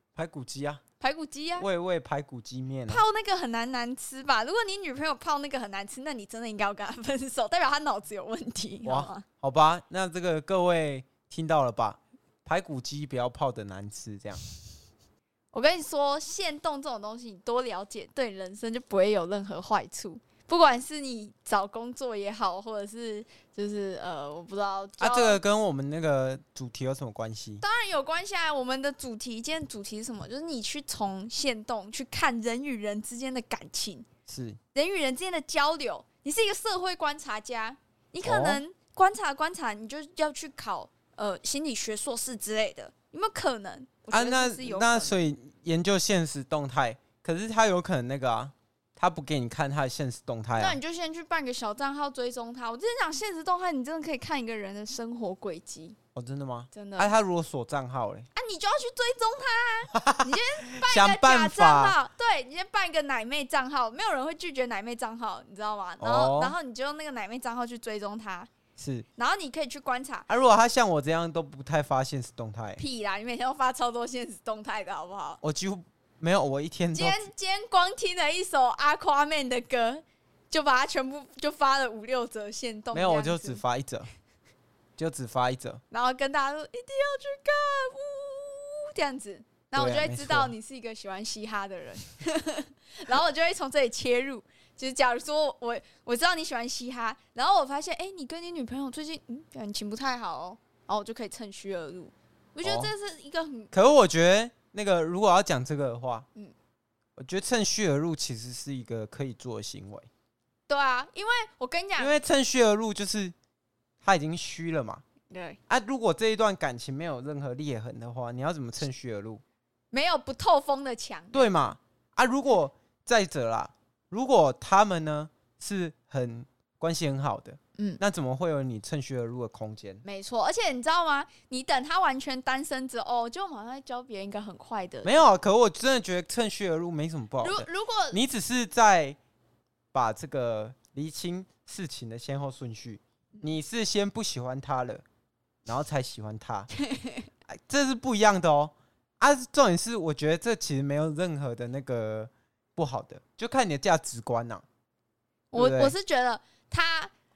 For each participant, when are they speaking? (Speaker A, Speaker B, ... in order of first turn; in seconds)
Speaker A: 0.1-0.8, 1.6-3.0, 8.8-14.4, 25.0-27.6, 34.3-34.6, 38.2-38.6, 44.1-50.8, 56.1-58.3, 59.9-62.0, 66.0-66.5, 68.8-69.0, 70.3-72.8, 75.4-77.3, 82.9-84.1, 85.0-85.8, 89.7-90.5, 102.6-102.9, 103.7-106.2, 107.2-110.1, 112.0-113.3, 114.0-115.0, 115.7-119.4, 121.3-130.0, 135.0-139.2, 139.9-145.0, 145.7-146.7, 147.5-154.6, 155.5-155.9
Speaker B: 1.0-1.7, 2.9-9.2, 15.5-25.4, 27.6-34.0, 34.7-45.1, 50.5-56.0, 56.7-57.1, 58.3-68.5, 69.2-70.3, 72.8-75.4, 76.9-83.6, 85.9-103.7, 110.7-112.1, 115.3-115.6, 119.9-121.5, 130.0-135.2, 137.4-138.2, 146.8-147.3, 155.5-157.1